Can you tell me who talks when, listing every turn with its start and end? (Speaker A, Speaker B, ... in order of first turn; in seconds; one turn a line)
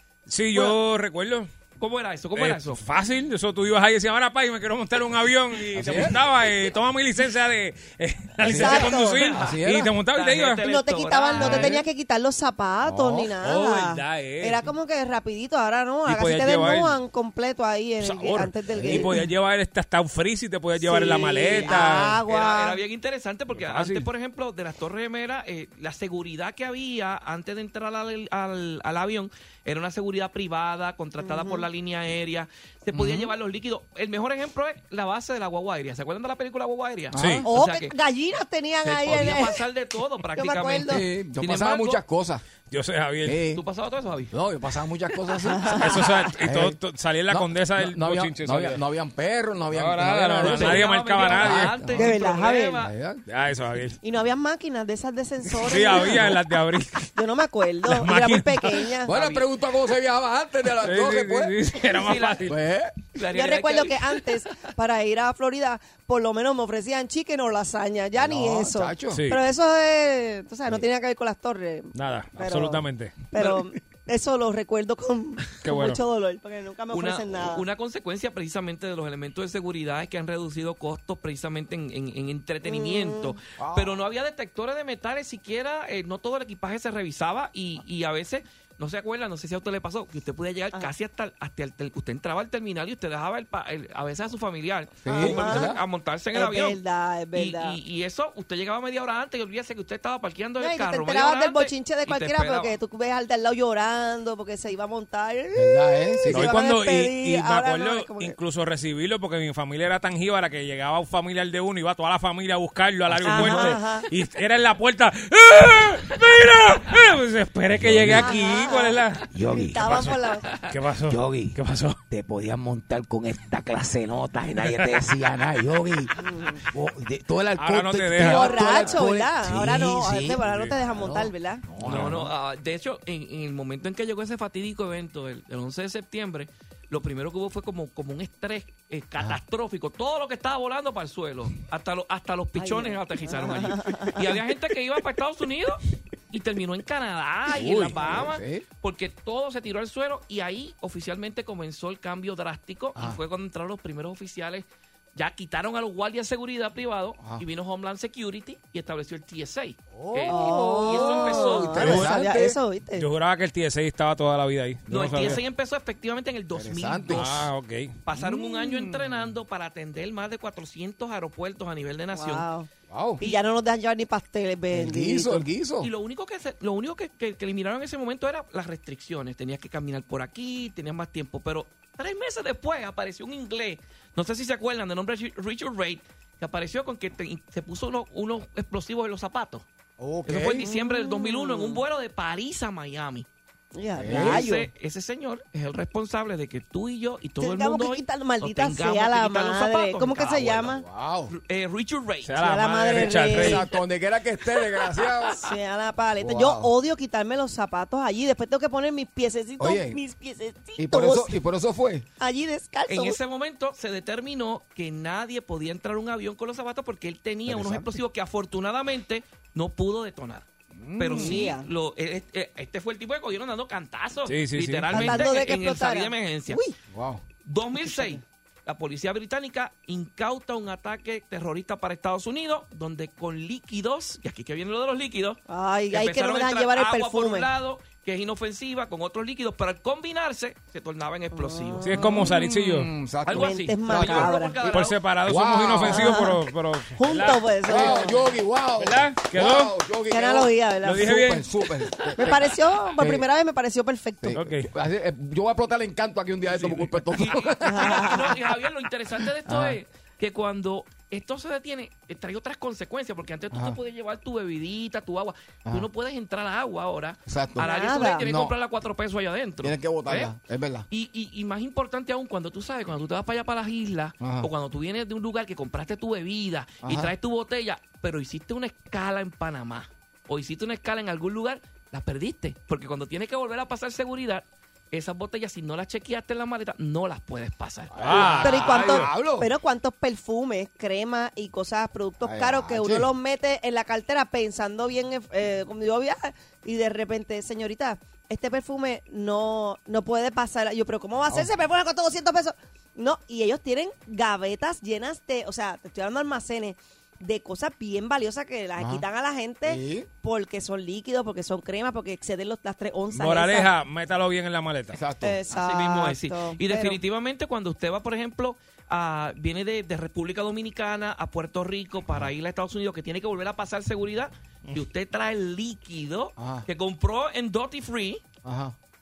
Speaker A: 0.3-1.5
Speaker B: 1.8-2.8
Speaker A: 2.4-10.6
Speaker C: 5.7-6.2
Speaker C: 8.5-8.8
Speaker D: 8.5-9.2
Speaker B: 8.7-11.8
Speaker C: 9.3-9.9
Speaker D: 10.6-19.2
Speaker A: 11.4-11.8
Speaker A: 13.3-14.7
Speaker A: 16.1-17.0
Speaker A: 18.0-22.2
Speaker C: 18.7-19.1
Speaker D: 20.8-22.8
Speaker B: 21.3-38.0
Speaker A: 23.5-24.1
Speaker D: 31.2-31.7
Speaker C: 32.9-33.3
Speaker C: 37.1-37.5
Speaker A: 37.1-37.5
Speaker D: 37.5-39.7
Speaker B: 38.8-42.0
Speaker D: 40.4-41.0
Speaker C: 40.9-42.4
Speaker A: 42.7-43.4
Speaker C: 43.2-43.6
Speaker B: 43.5-44.3
Speaker C: 44.3-45.9
Speaker D: 45.5-46.1
Speaker A: 45.7-48.8
Speaker C: 46.4-46.8
Speaker C: 47.3-52.0
Speaker A: 49.7-52.0
Speaker B: 50.4-52.9
Speaker D: 51.9-52.9
Speaker C: 52.8-53.2
Speaker A: 53.3-54.0
Speaker D: 54.0-56.4
Speaker A: 55.6-57.1
Speaker D: 57.2-59.1
Speaker A: 57.9-58.9
Speaker C: 59.1-61.5
Speaker B: 59.1-59.5
Speaker A: 60.8-62.6
Speaker B: 61.9-62.5
Speaker C: 62.5-63.0
Speaker B: 63.2-64.2
Speaker D: 63.3-77.7
Speaker C: 68.2-69.2
Speaker A: 69.1-69.4
Speaker A: 72.0-73.2
Speaker A: 75.6-76.0
Speaker B: 76.9-96.8
Speaker D: 82.6-83.4
Speaker C: 83.6-84.0
Speaker C: 95.0-95.8
Speaker D: 95.1-95.8
Speaker D: 96.3-97.8
Speaker B: 97.3-102.8
Speaker D: 100.6-108.4
Speaker C: 105.6-106.5
Speaker A: 106.3-119.2
Speaker D: 113.2-114.1
Speaker E: 117.8-118.2
Speaker C: 117.9-118.2
Speaker D: 118.1-120.5
Speaker E: 119.3-119.9
Speaker A: 119.8-120.1
Speaker A: 120.7-122.0
Speaker E: 121.1-121.6
Speaker E: 122.1-126.1
Speaker D: 126.2-126.6
Speaker E: 126.7-128.2
Speaker C: 127.6-129.3
Speaker A: 127.6-128.9
Speaker D: 128.2-131.6
Speaker E: 129.3-130.4
Speaker A: 130.4-130.7
Speaker E: 131.1-132.1
Speaker C: 131.8-132.3
Speaker B: 131.8-145.8
Speaker D: 142.6-144.2
Speaker B: 146.3-161.9
Speaker C: 147.5-148.7
Speaker C: 157.2-157.4
Speaker C: 159.9-162.6
Speaker D: 160.3-163.1
Speaker A: 161.8-162.1
Speaker A: 163.0-165.4
Speaker B: 164.9-167.5
Speaker C: 166.5-167.3
Speaker A: 167.1-168.0
Speaker B: 168.1-172.5
Speaker C: 168.1-169.3
Speaker D: 172.1-172.7
Speaker C: 172.9-173.2
Speaker D: 173.2-175.5
Speaker C: 174.7-175.9
Speaker B: 175.8-189.7
Speaker C: 190.0-190.6
Speaker B: 190.3-193.3
Speaker D: 190.6-191.8
Speaker D: 193.8-194.7
Speaker C: 194.0-194.5
Speaker B: 194.1-200.7
Speaker D: 197.4-200.8
Speaker C: 200.6-201.3
Speaker B: 201.3-202.3
Speaker A: 202.2-203.7
Speaker D: 202.4-203.6
Speaker C: 203.3-205.4
Speaker D: 205.4-211.3
Speaker C: 206.2-206.7
Speaker C: 209.6-210.0
Speaker C: 210.8-212.1
Speaker D: 212.2-213.2
Speaker B: 212.9-220.5
Speaker C: 217.5-218.0
Speaker C: 220.8-221.4
Speaker B: 221.0-226.6
Speaker D: 221.1-221.7
Speaker A: 224.3-225.2
Speaker D: 224.9-226.8
Speaker C: 226.9-227.2
Speaker B: 227.4-241.9
Speaker D: 227.8-228.2
Speaker D: 235.5-237.5
Speaker D: 241.3-242.0
Speaker A: 241.8-242.9
Speaker C: 241.9-244.3
Speaker B: 243.3-245.0
Speaker D: 243.3-244.6
Speaker A: 244.7-247.9
Speaker C: 245.2-246.1
Speaker D: 245.9-246.4
Speaker D: 247.0-248.2
Speaker C: 247.7-253.3
Speaker A: 248.8-249.7
Speaker D: 250.1-251.2
Speaker A: 250.8-251.5
Speaker D: 252.2-254.4
Speaker C: 254.2-258.1
Speaker A: 254.3-254.7
Speaker B: 256.6-270.3
Speaker D: 257.6-258.4
Speaker C: 259.4-259.8
Speaker C: 263.5-263.8
Speaker C: 267.3-267.7
Speaker D: 267.6-268.3
Speaker C: 268.2-268.6
Speaker C: 269.6-270.9
Speaker B: 270.9-288.2
Speaker C: 274.2-274.5
Speaker C: 276.8-277.1
Speaker C: 287.9-289.5
Speaker A: 288.0-289.1
Speaker D: 288.4-313.7
Speaker C: 292.2-293.1
Speaker C: 308.8-309.1
Speaker C: 309.6-310.1
Speaker A: 313.1-315.0
Speaker C: 314.9-315.4
Speaker D: 315.2-317.0
Speaker B: 315.5-328.2
Speaker C: 326.4-326.7
Speaker C: 328.4-328.8